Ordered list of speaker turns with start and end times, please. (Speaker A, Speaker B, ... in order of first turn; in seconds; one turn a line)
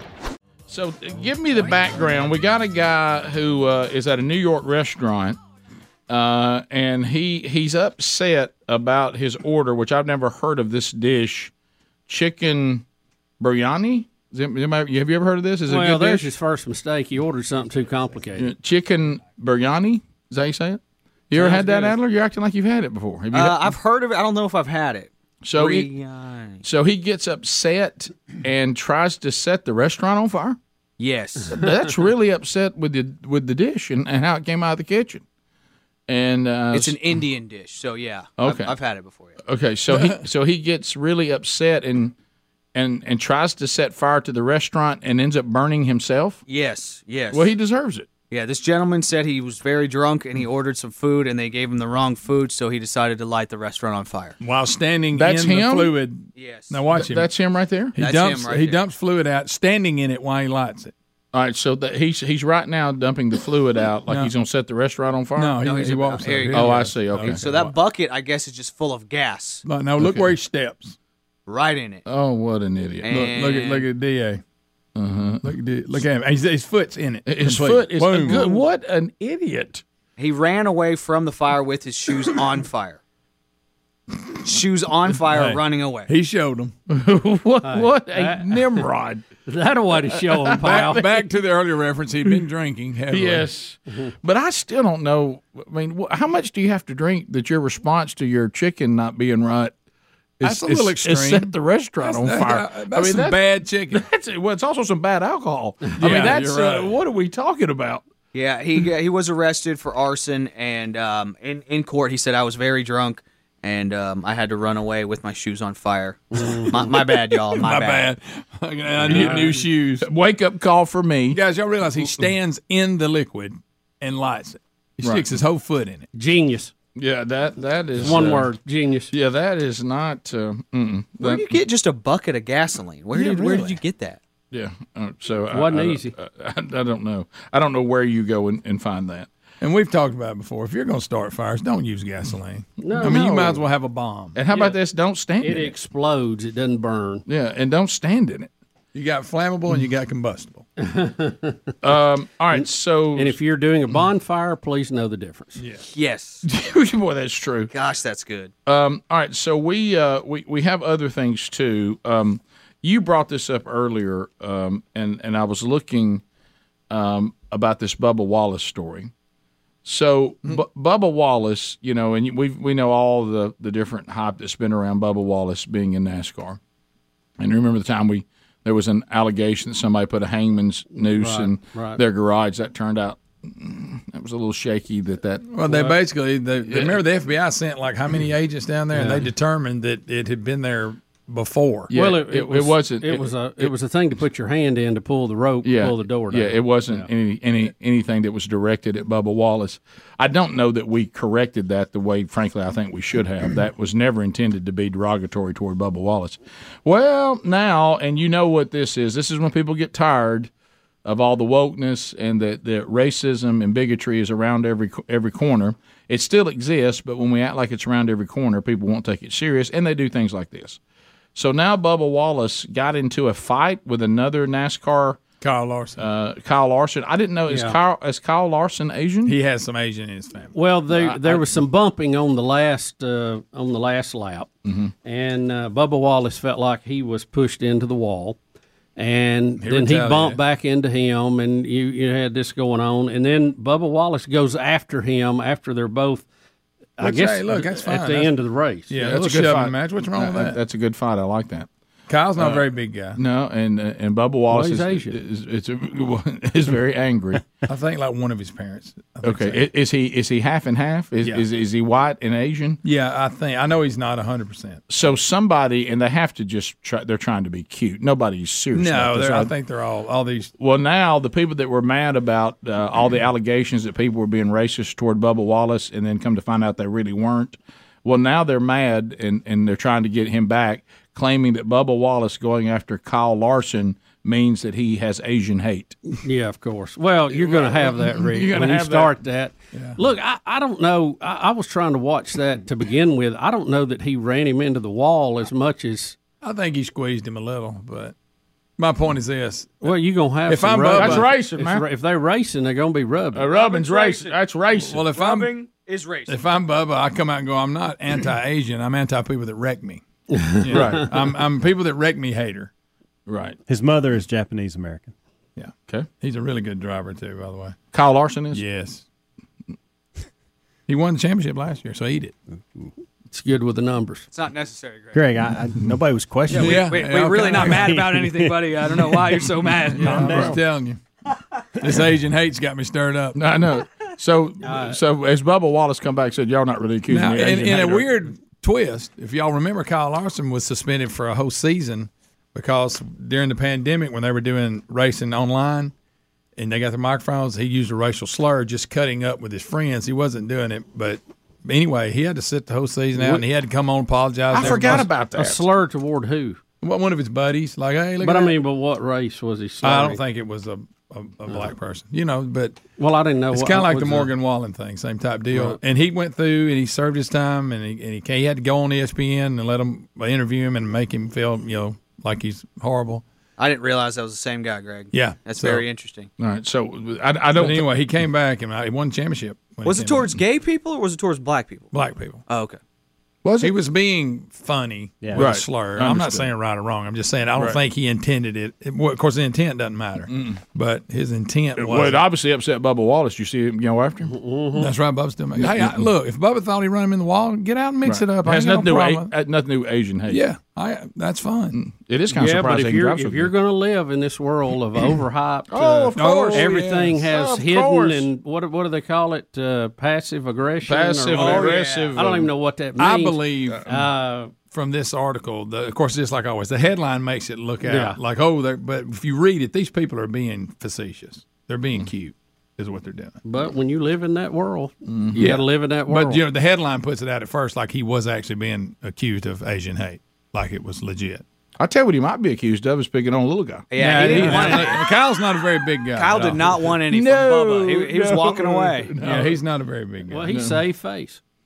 Speaker A: 0.7-5.4
Speaker A: 6.1-11.5
Speaker A: 12.1-12.8
Speaker A: 13.4-16.3
Speaker B: 15.7-18.5
Speaker A: 18.4-23.8
Speaker B: 21.4-21.9
Speaker C: 21.4-21.9
Speaker C: 23.3-26.6
Speaker A: 25.4-25.9
Speaker A: 26.6-30.6
Speaker C: 31.0-31.6
Speaker A: 31.5-35.2
Speaker A: 36.1-37.0
Speaker C: 36.7-39.4
Speaker A: 38.4-38.7
Speaker A: 39.5-42.1
Speaker D: 39.9-40.2
Speaker A: 42.8-46.4
Speaker C: 46.5-47.5
Speaker A: 47.3-48.1
Speaker C: 48.3-54.4
Speaker D: 54.4-57.3
Speaker A: 55.1-55.9
Speaker C: 56.4-56.8
Speaker A: 56.9-58.0
Speaker D: 58.0-60.9
Speaker C: 58.0-58.8
Speaker A: 61.3-65.6
Speaker D: 64.1-64.3
Speaker D: 65.4-67.7
Speaker C: 65.6-69.6
Speaker A: 66.5-67.4
Speaker D: 69.7-71.0
Speaker C: 71.5-72.0
Speaker A: 72.1-73.1
Speaker C: 73.0-73.9
Speaker D: 73.1-74.4
Speaker A: 75.0-75.5
Speaker D: 75.4-78.7
Speaker A: 77.3-79.8
Speaker C: 80.2-83.0
Speaker C: 84.4-86.1
Speaker D: 85.2-86.8
Speaker A: 86.9-89.2
Speaker B: 87.6-88.9
Speaker B: 89.5-91.1
Speaker A: 90.2-90.9
Speaker D: 90.6-93.5
Speaker A: 93.1-99.7
Speaker A: 100.4-103.4
Speaker D: 100.4-104.1
Speaker A: 103.9-108.0
Speaker D: 106.0-107.0
Speaker C: 108.3-118.1
Speaker B: 116.4-116.7
Speaker D: 116.7-120.1
Speaker A: 119.0-119.5
Speaker B: 119.0-119.6
Speaker A: 120.0-121.4
Speaker D: 121.3-126.1
Speaker A: 122.0-122.3
Speaker B: 126.1-126.7
Speaker A: 127.0-128.5
Speaker B: 128.0-129.1
Speaker A: 129.1-131.6
Speaker C: 131.2-134.2
Speaker D: 133.1-133.8
Speaker A: 134.5-139.3
Speaker B: 135.5-136.1
Speaker D: 139.6-144.4
Speaker B: 142.8-143.2
Speaker A: 143.0-143.6
Speaker A: 144.3-145.8
Speaker B: 144.5-144.8
Speaker B: 145.4-147.2
Speaker A: 147.3-148.5
Speaker D: 148.9-150.7
Speaker B: 150.8-151.7
Speaker A: 151.8-153.4
Speaker B: 152.5-155.6
Speaker D: 155.6-155.8
Speaker C: 155.9-156.4
Speaker A: 156.5-157.7
Speaker C: 157.7-158.5
Speaker A: 158.7-166.2
Speaker A: 166.9-169.1
Speaker A: 169.8-176.6
Speaker A: 177.4-185.9
Speaker B: 180.9-182.0
Speaker D: 185.5-191.9
Speaker A: 186.7-187.0
Speaker B: 188.9-189.3
Speaker A: 191.9-193.7
Speaker B: 191.9-197.1
Speaker A: 195.6-210.5
Speaker A: 211.1-220.8
Speaker A: 221.3-225.2
Speaker D: 225.4-226.0
Speaker A: 226.0-229.3
Speaker B: 227.5-227.8
Speaker D: 229.2-230.5
Speaker B: 230.5-234.5
Speaker A: 230.9-231.5
Speaker A: 234.7-234.9
Speaker B: 235.0-238.4
Speaker B: 239.0-246.3
Speaker D: 239.6-240.4
Speaker B: 247.0-249.2
Speaker D: 247.0-248.3
Speaker D: 248.9-250.6
Speaker A: 249.0-251.7
Speaker D: 252.1-253.2
Speaker A: 252.4-257.4
Speaker B: 254.5-255.2
Speaker D: 257.6-259.7
Speaker A: 259.2-262.8
Speaker D: 262.8-264.8
Speaker A: 264.9-269.5
Speaker D: 268.7-270.5
Speaker A: 270.6-286.0
Speaker B: 286.2-296.2
Speaker A: 287.3-289.2
Speaker D: 289.7-290.0
Speaker D: 296.4-298.1
Speaker D: 298.8-301.3
Speaker B: 299.8-303.5
Speaker A: 300.9-301.9
Speaker A: 303.4-305.0
Speaker C: 303.5-304.4
Speaker D: 304.8-305.5
Speaker C: 305.1-306.4
Speaker D: 306.3-312.7
Speaker B: 310.3-310.9
Speaker A: 310.7-311.1
Speaker A: 313.3-313.6
Speaker E: 313.7-315.1
Speaker D: 315.6-317.8
Speaker A: 317.9-318.6
Speaker D: 318.5-319.1
Speaker D: 320.9-322.4
Speaker B: 323.3-324.3
Speaker C: 324.3-325.2
Speaker E: 325.1-328.6
Speaker C: 326.5-330.5
Speaker D: 326.5-328.1
Speaker D: 329.9-331.0
Speaker E: 330.0-330.6
Speaker A: 330.2-330.5
Speaker D: 331.8-333.4
Speaker A: 333.4-338.1
Speaker B: 334.6-335.0
Speaker D: 337.1-345.9
Speaker D: 346.6-355.1
Speaker B: 353.2-353.4
Speaker A: 354.5-355.6
Speaker B: 354.6-356.6
Speaker D: 356.8-358.6
Speaker B: 358.2-360.2
Speaker D: 359.8-362.8
Speaker B: 363.0-364.3
Speaker D: 363.5-373.2
Speaker B: 365.5-365.8
Speaker C: 373.6-376.3
Speaker D: 375.1-375.9
Speaker A: 376.4-377.9
Speaker D: 377.6-380.4
Speaker C: 379.8-381.9
Speaker D: 381.9-382.4
Speaker C: 382.5-382.8
Speaker A: 383.4-383.7
Speaker D: 383.6-392.2
Speaker A: 385.4-386.5
Speaker A: 390.3-390.6
Speaker A: 391.8-394.3
Speaker B: 394.3-394.9
Speaker D: 394.8-399.3
Speaker A: 395.6-396.1
Speaker A: 398.1-400.4
Speaker D: 400.3-401.8
Speaker A: 401.7-403.5
Speaker B: 402.3-414.5
Speaker A: 405.7-408.3
Speaker D: 406.1-407.2
Speaker A: 410.8-412.5
Speaker D: 411.3-412.1
Speaker D: 413.0-414.1
Speaker D: 414.7-423.4
Speaker B: 417.9-418.2
Speaker B: 423.4-426.4
Speaker A: 425.1-425.6
Speaker D: 425.4-431.4
Speaker A: 431.8-434.9
Speaker C: 433.9-435.1
Speaker D: 434.0-437.0
Speaker B: 434.4-434.7
Speaker C: 436.2-439.1
Speaker A: 437.1-439.6
Speaker D: 439.2-440.6
Speaker B: 440.3-441.4
Speaker A: 440.5-440.8